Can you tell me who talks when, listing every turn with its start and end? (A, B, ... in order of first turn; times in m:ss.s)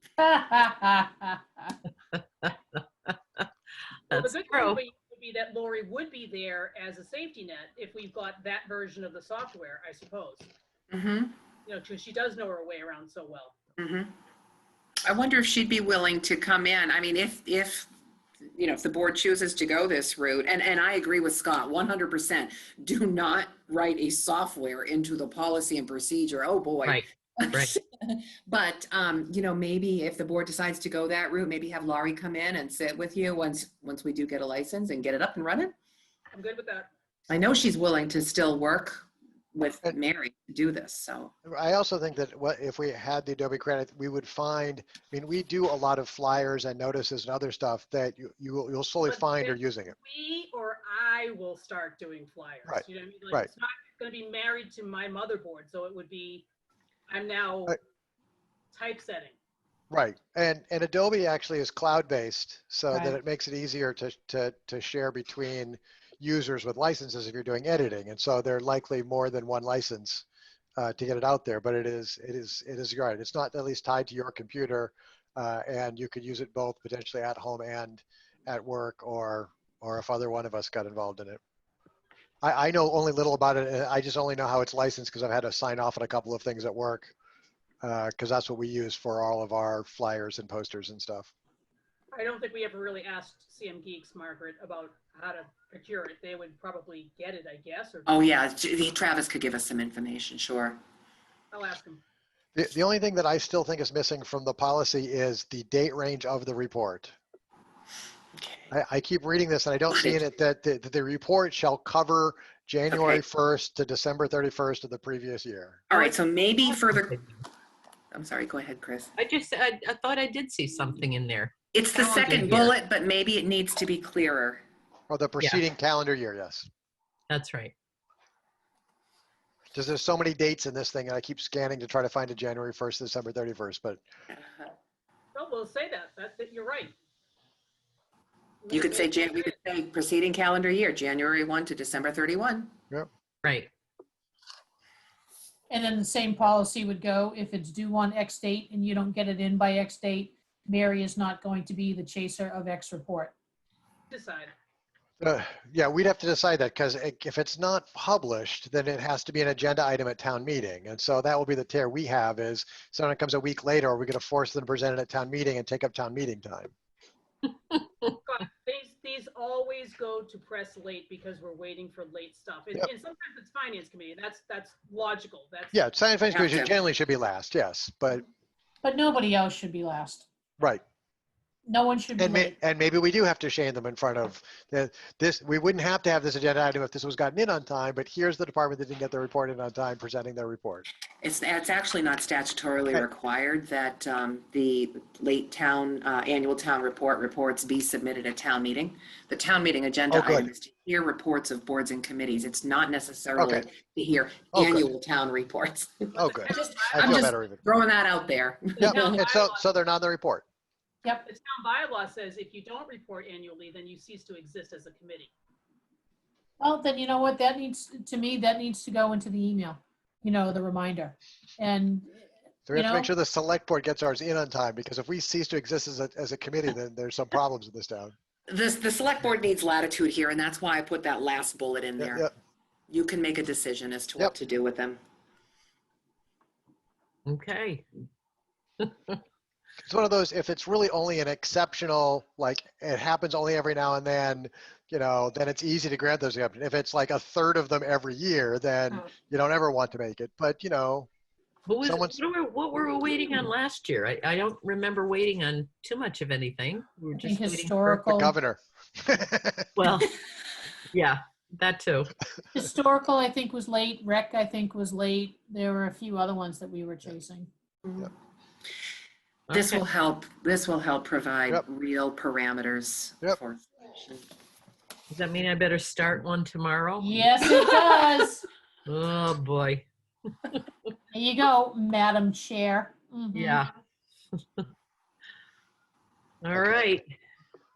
0:00.2-0:01.7 A
0:02.1-0:03.5 B
0:04.1-0:04.8 B
0:04.1-0:10.5 C
0:10.9-0:11.4 D
0:11.6-0:13.6 C
0:13.8-0:14.1 D
0:15.1-0:17.9 D
0:18.6-0:35.7 D
0:26.8-0:27.7 B
0:36.3-0:36.9 C
0:37.3-0:41.3 D
0:41.4-0:50.0 E
0:49.1-0:56.4 C
0:52.7-0:53.5 E
0:57.1-0:57.8 C
0:58.7-0:59.3 C
0:59.9-1:10.2 E
1:10.8-1:21.4 E
1:22.4-1:27.1 E
1:27.8-1:31.3 E
1:32.1-1:38.2 C
1:38.1-1:40.8 D
1:41.5-1:42.0 C
1:42.5-1:47.1 E
1:48.4-1:48.7 D
1:48.7-1:55.8 E
1:52.9-1:53.2 D
1:55.9-1:57.2 D
1:55.9-1:57.4 B
1:58.1-1:59.1 D
1:59.2-2:02.7 B
2:01.7-2:04.6 D
2:05.1-2:06.7 E
2:07.3-2:07.7 B
2:09.7-2:14.0 E
2:14.3-2:14.7 D
2:15.3-2:16.9 C
2:18.6-2:19.6 C
2:18.7-2:22.7 D
2:23.4-2:23.7 B
2:25.7-2:33.3 A
2:34.1-2:34.5 C
2:35.2-2:46.7 E
2:48.1-2:55.8 C
2:55.7-2:58.2 E
2:56.3-2:56.7 D
2:58.8-3:00.2 A
3:01.6-3:02.5 A
3:02.2-3:10.9 E
3:11.2-3:29.2 D
3:20.1-3:20.5 E
3:23.4-3:23.6 E
3:24.5-3:24.9 E
3:26.1-3:27.6 E
3:26.2-3:27.3 C
3:28.8-3:30.4 E
3:28.8-3:29.6 C
3:31.2-3:35.3 C
3:36.6-3:42.1 A
3:42.7-3:48.1 E
3:42.7-3:43.1 A
3:48.5-3:52.2 D
3:52.0-3:52.3 E
3:52.9-3:55.0 D
3:57.2-3:57.9 B
3:58.8-3:59.2 B
3:59.8-4:11.1 E
4:11.7-4:18.0 B
4:11.8-4:12.2 E
4:17.2-4:18.3 A
4:18.0-4:19.7 E
4:19.8-4:20.2 B
4:20.9-4:22.1 B
4:22.5-4:27.5 A
4:29.5-4:29.8 B
4:29.5-4:34.2 D
4:35.1-4:37.8 B
4:37.0-4:38.4 A
4:38.9-4:39.9 B
4:41.1-4:43.6 A
4:43.3-4:43.7 B
4:46.4-4:47.1 B
4:46.5-4:47.0 E